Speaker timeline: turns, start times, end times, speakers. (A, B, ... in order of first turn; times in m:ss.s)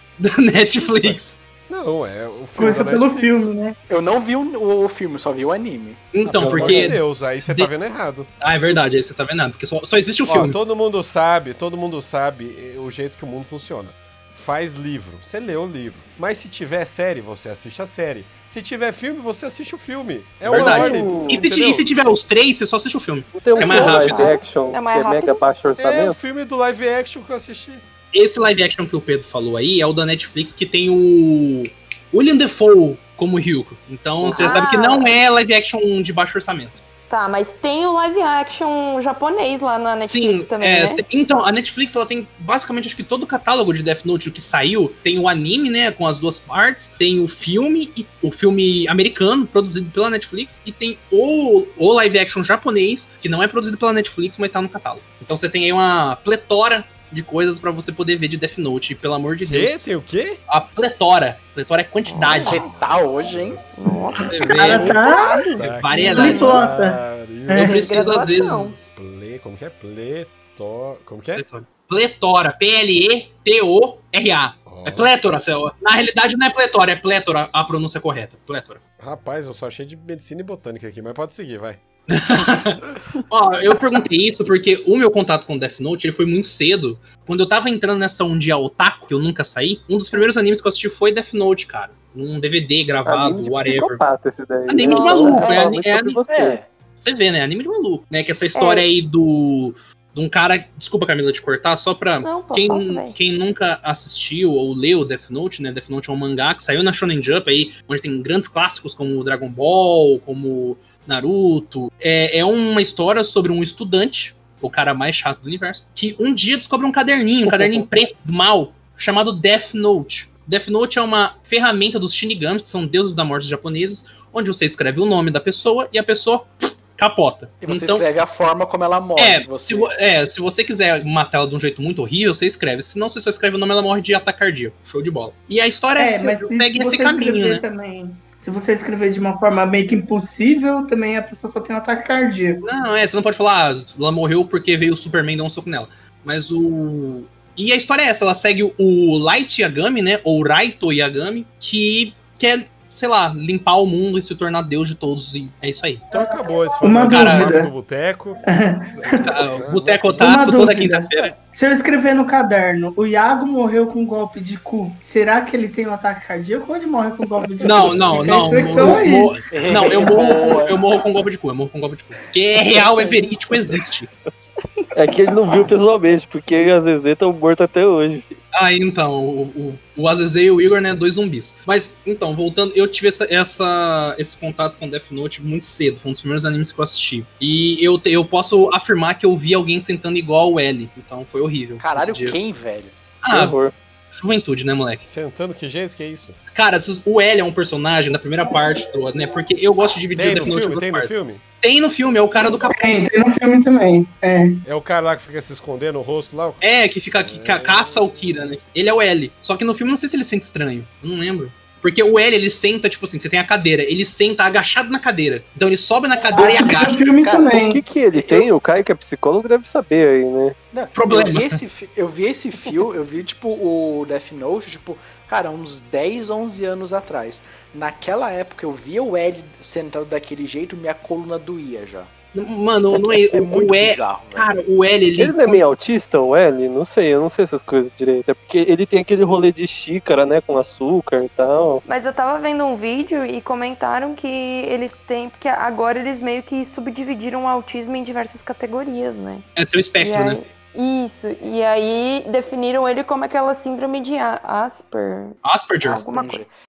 0:00.2-0:01.4 A
0:00.8-0:03.5 B
0:02.6-0:03.8 C
0:03.9-0:07.0 D
0:06.1-0:07.7 A
0:06.4-0:08.3 B
0:08.4-0:10.6 A
0:10.3-0:21.9 B
0:20.4-0:24.3 A
0:20.5-0:21.4 E
0:23.3-0:26.2 E
0:23.5-0:25.4 F
0:25.8-0:27.8 B
0:28.1-0:36.8 A
0:34.3-0:35.2 F
0:37.1-0:41.0 F
0:40.0-0:59.8 A
0:59.5-1:00.4 B
1:00.5-1:02.6 A
1:02.0-1:02.7 F
1:02.3-1:05.0 B
1:02.3-1:03.7 D
1:03.7-1:06.7 F
1:04.1-1:05.0 A
1:04.4-1:05.4 C
1:05.5-1:07.8 B
1:05.6-1:06.6 A
1:06.0-1:07.7 C
1:07.5-1:08.8 A
1:07.6-1:08.8 F
1:08.9-1:11.4 B
1:11.4-1:18.8 A
1:14.7-1:15.1 B
1:19.0-1:21.8 B
1:22.1-1:34.0 A
1:33.0-1:36.6 E
1:34.7-1:36.2 A
1:34.8-1:35.7 F
1:36.3-1:36.7 D
1:37.0-2:08.0 A
1:38.5-1:38.8 F
1:42.2-1:43.2 F
1:57.4-1:57.9 E
2:07.6-2:09.9 D
2:09.2-2:17.6 A
2:16.0-2:22.6 C
2:22.6-2:36.1 A
2:36.1-2:37.7 C
2:36.1-2:38.4 B
2:37.0-2:37.6 A
2:38.5-2:39.3 C
2:39.0-2:40.2 B
2:39.1-2:41.3 A
2:40.2-2:49.3 C
2:47.6-2:54.1 A
2:48.7-2:50.9 D
2:50.1-2:50.7 E
2:54.9-2:58.4 E
2:58.5-3:12.4 A
3:11.8-3:12.9 D
3:13.2-3:13.5 A
3:13.3-3:13.7 E
3:14.1-3:15.0 A
3:15.0-3:16.4 B
3:16.5-3:21.1 A
3:20.2-3:21.4 B
3:21.6-3:23.1 A
3:22.6-3:24.6 C
3:24.6-3:26.6 B
3:26.6-3:37.0 A
3:27.2-3:28.1 B
3:36.3-3:37.8 C
3:37.2-3:37.5 D
3:37.5-3:40.5 E
3:38.1-3:38.5 D
3:40.7-3:52.1 D
3:40.9-3:41.6 A
3:52.3-3:55.6 A
3:53.1-3:54.5 D
3:55.2-4:01.8 E
4:01.8-4:09.4 F
4:09.6-4:10.4 A
4:10.0-4:16.4 F
4:15.4-4:16.1 A
4:15.8-4:16.5 D